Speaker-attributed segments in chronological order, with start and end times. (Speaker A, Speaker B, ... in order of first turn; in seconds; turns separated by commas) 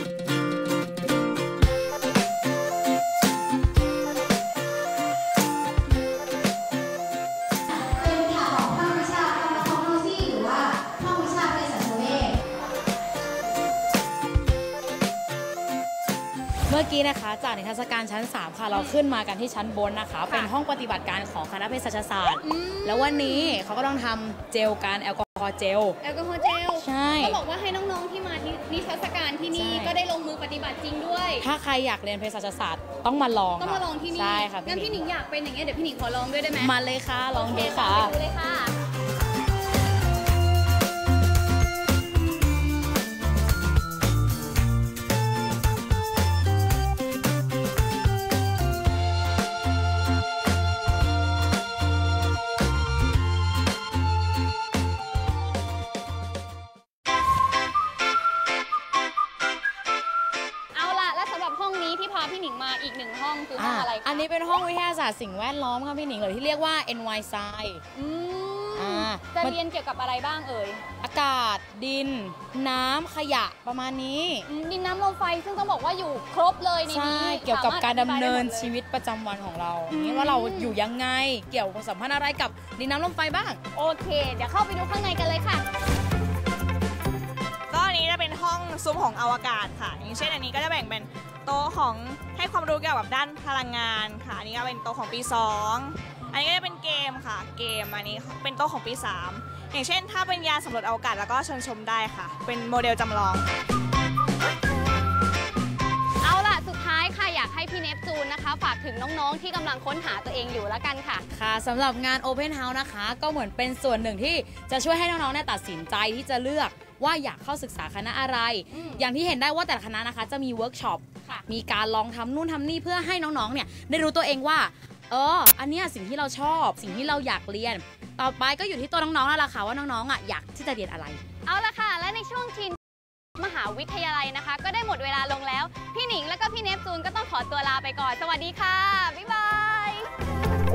Speaker A: 8.0-12.3, Speaker A: 16.7-26.0, Speaker B: 18.7-19.0, Speaker B: 22.4-23.6, Speaker B: 26.0-31.5, Speaker A: 26.8-27.4, Speaker A: 29.5-29.9, Speaker A: 31.4-35.0, Speaker B: 33.6-36.7, Speaker A: 36.6-38.1, Speaker B: 37.3-38.7, Speaker B: 60.7-64.2, Speaker A: 63.6-67.8, Speaker B: 67.9-70.8, Speaker A: 68.8-69.6, Speaker A: 71.0-74.5, Speaker B: 74.5-78.7, Speaker A: 76.9-83.6, Speaker B: 79.9-80.8, Speaker B: 83.7-85.6, Speaker C: 87.7-103.5, Speaker B: 106.2-111.2, Speaker A: 111.3-131.2, Speaker B: 118.7-119.0, Speaker B: 131.4-132.8, Speaker B: 133.4-140.1